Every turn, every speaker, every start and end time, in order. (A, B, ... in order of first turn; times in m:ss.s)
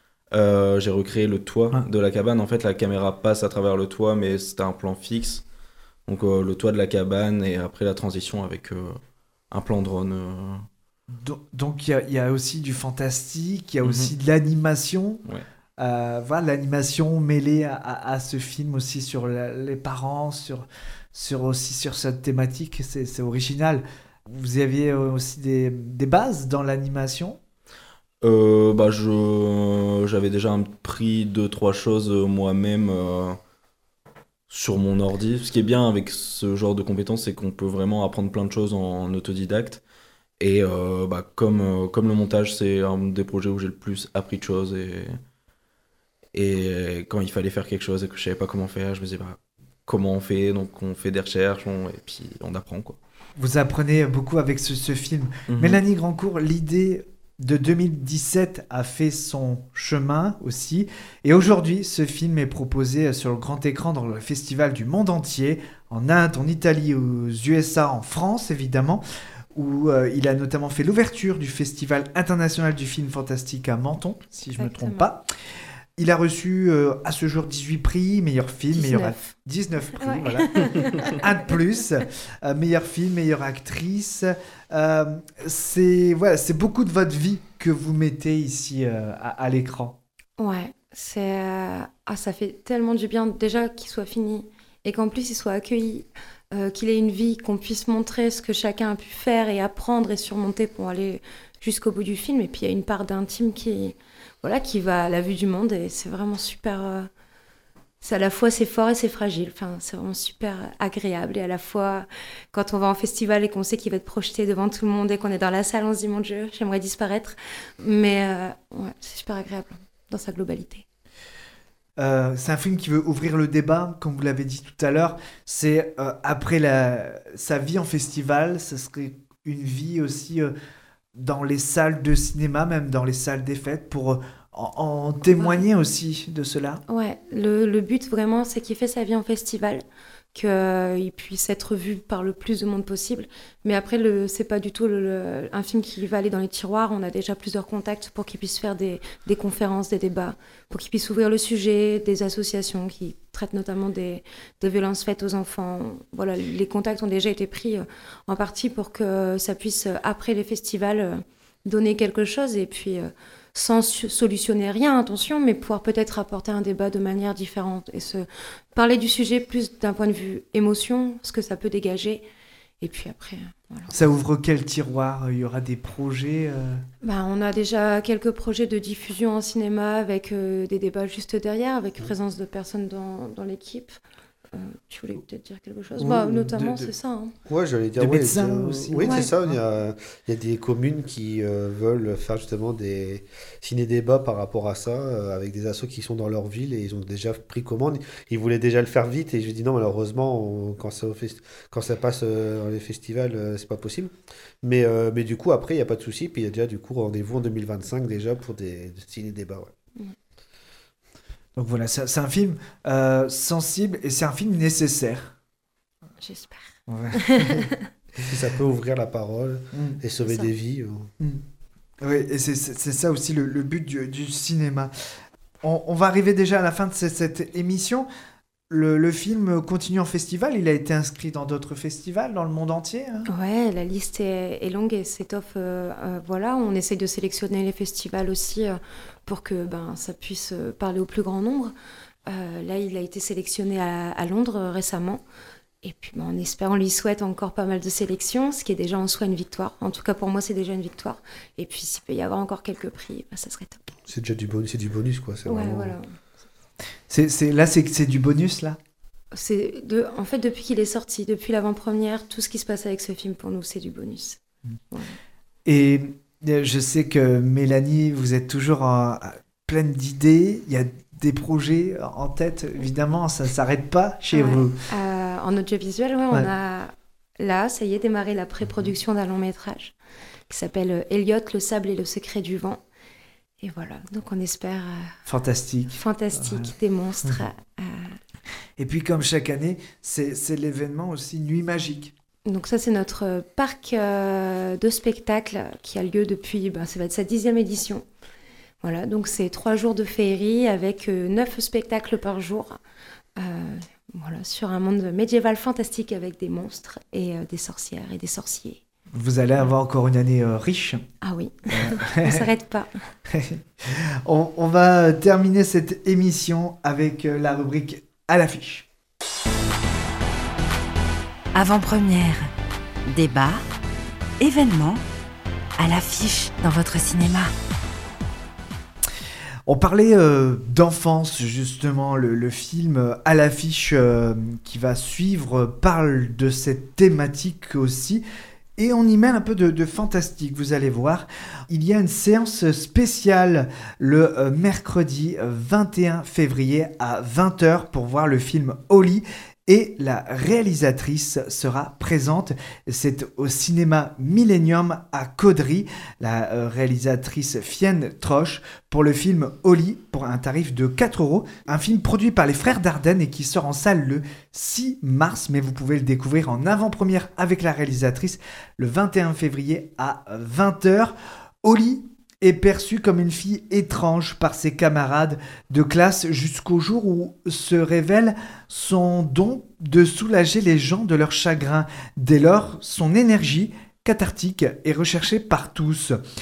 0:00.3-0:05.4 A
0:06.1-0:09.0 A
0:09.5-0:10.7 A
0:11.2-0:15.2 B
0:13.8-0:14.1 A
0:15.8-0:27.4 B
0:28.2-0:33.4 A
0:34.5-0:39.8 A
0:40.4-0:45.2 A
0:46.3-0:53.0 A
0:53.4-1:09.0 B
0:55.5-0:55.8 A
1:09.6-1:15.2 B
1:14.6-1:15.1 C
1:16.0-1:30.0 B
1:18.7-1:19.4 C
1:20.0-1:21.3 C
1:30.4-1:47.1 C
1:48.0-2:00.8 C
2:02.0-2:10.5 B
2:11.2-2:16.8 B
2:15.4-2:15.6 C
2:16.9-2:52.3 C
2:52.8-2:53.9 C
2:53.9-2:56.8 B
2:57.0-3:04.0 C
3:04.5-3:07.4 C
3:06.0-3:06.9 B
3:07.5-3:29.7 D
3:08.0-3:09.6 B
3:09.0-3:09.3 C
3:31.6-3:35.3 B
3:36.2-3:37.9 C
3:36.9-3:37.7 B
3:38.3-3:41.1 D
3:39.7-3:40.0 B
3:42.0-3:44.9 B
3:45.6-3:48.1 B
3:48.7-3:53.3 B
3:53.3-4:01.7 C
4:02.3-4:05.2 C
4:05.8-4:13.8 C
4:14.1-4:16.0 D
4:15.5-4:16.1 C
4:17.1-4:18.8 B
4:19.3-4:25.2 C
4:25.7-4:34.8 B
4:34.3-4:40.0 C
4:40.5-4:42.8 C
4:43.6-4:45.2 C
4:45.3-4:46.7 B
4:45.9-4:48.2 C
4:48.8-4:52.1 B
4:52.5-4:58.0 C
4:58.8-5:02.8 C
5:03.4-5:08.8 C
5:09.2-5:11.0 B
5:11.2-5:12.9 C
5:11.7-5:12.4 B
5:13.3-5:18.9 B
5:21.6-5:22.5 E
5:23.1-5:23.6 E
5:24.4-5:25.0 E
5:25.8-5:27.5 E
5:29.7-5:38.2 B
5:38.8-6:26.2 B